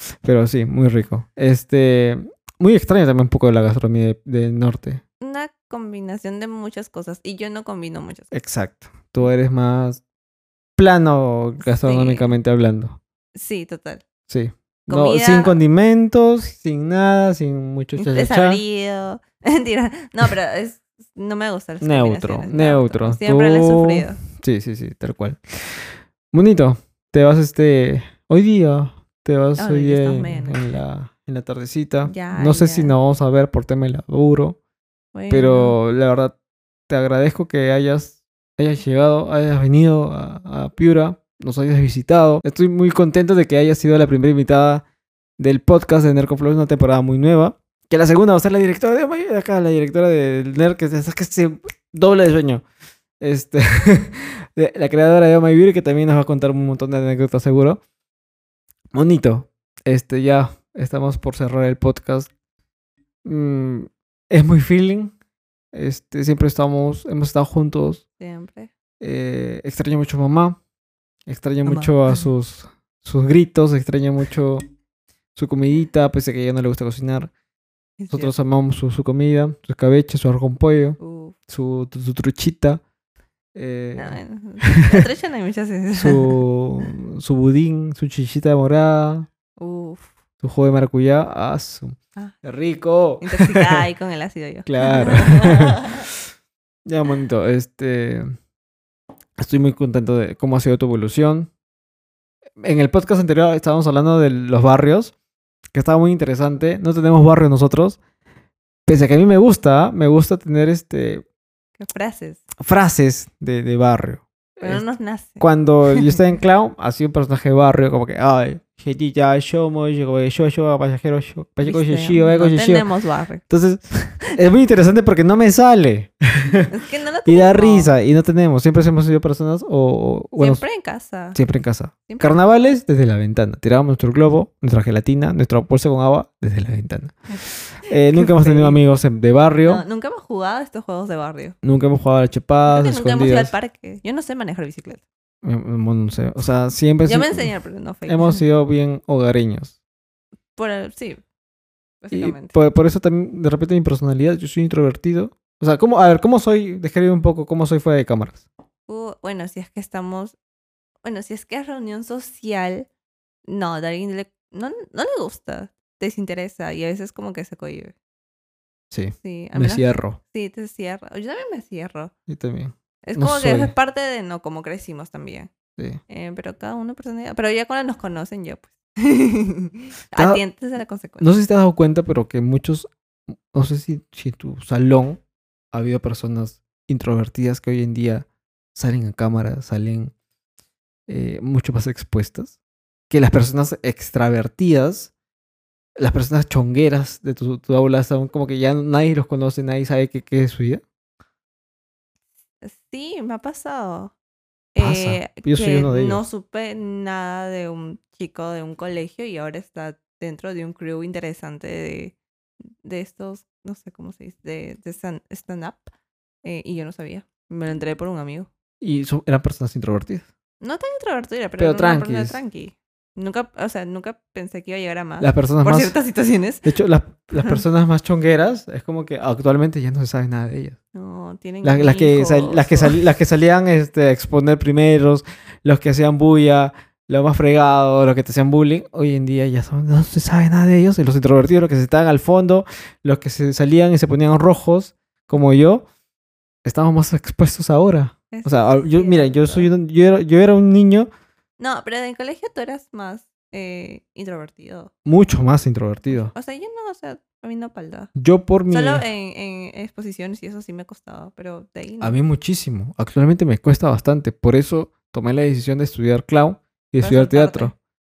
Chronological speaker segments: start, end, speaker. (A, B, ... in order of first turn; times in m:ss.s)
0:00.2-0:05.0 A
0:05.2-0:08.3 B
0:08.3-0:10.0 A
0:10.8-0:13.0 A
0:11.7-0:12.4 B
0:13.4-0:14.0 B
0:14.3-0:18.6 A
0:14.9-0:15.6 B
0:18.0-0:24.2 B
0:21.8-0:34.6 A
0:29.6-0:30.8 B
0:32.0-0:33.0 B
0:35.1-0:35.8 B
0:35.3-0:36.4 A
0:36.9-0:44.8 A
0:45.4-0:52.6 A
0:53.2-0:57.8 A
0:58.9-1:02.3 A
1:03.2-1:05.1 A
1:05.7-1:08.0 A
1:08.2-1:08.7 B
1:09.0-1:10.6 A
1:11.3-1:14.6 A
1:11.6-1:12.3 B
1:15.4-1:17.3 A
1:18.0-1:18.3 B
1:18.1-1:22.8 A
1:21.0-1:21.4 B
1:23.6-1:25.0 A
1:24.0-1:26.4 B
1:26.0-1:29.3 A
1:29.6-1:30.1 B
1:30.4-1:33.8 A
1:33.2-1:36.0 B
1:34.6-1:36.2 A
1:36.9-1:38.3 A
1:39.4-1:41.5 A
1:42.6-1:45.1 A
1:45.7-1:48.0 A
1:48.9-1:51.2 A
1:51.8-1:52.4 B
1:52.6-1:54.8 A
1:54.6-1:56.2 B
1:55.4-2:02.9 A
2:01.6-2:03.4 B
2:03.5-2:06.7 A
2:06.7-2:07.9 B
2:07.2-2:10.6 A
2:10.4-2:11.4 B
2:11.3-2:19.8 A
2:12.1-2:12.4 B
2:17.9-2:18.8 B
2:19.6-2:21.6 B
2:21.6-2:23.5 A
2:22.7-2:25.0 B
2:25.4-2:27.5 A
2:27.0-2:28.4 B
2:28.1-2:29.8 A
2:30.6-2:31.2 B
2:32.0-2:32.6 B
2:32.1-2:38.5 A
2:38.9-2:40.4 B
2:41.0-2:42.9 B
2:43.4-2:47.9 B
2:48.9-2:50.2 A
2:49.2-2:52.1 B
2:52.3-2:53.7 A
2:53.0-2:55.5 B
2:56.1-3:01.3 B
3:00.2-3:00.4 A
3:01.2-3:02.9 A
3:03.5-3:05.2 A
3:05.7-3:10.1 A
3:11.1-3:12.6 A
3:13.1-3:15.1 A
3:16.0-3:20.8 A
3:22.6-3:24.1 B
3:24.8-3:35.9 B
3:24.8-3:26.2 A
3:36.4-3:38.5 B
3:38.8-3:40.3 A
3:40.6-3:46.7 B
3:41.6-3:42.4 A
3:45.2-3:46.0 A
3:46.6-3:50.8 A
3:50.9-3:53.0 B
3:51.6-4:05.9 A
4:06.6-4:11.1 A
4:08.3-4:09.7 B
4:11.6-4:14.9 B
4:15.0-4:16.3 A
4:16.1-4:18.1 B
4:18.2-4:19.0 A
4:18.7-4:22.2 B
4:22.0-4:27.7 A
4:27.0-4:27.7 B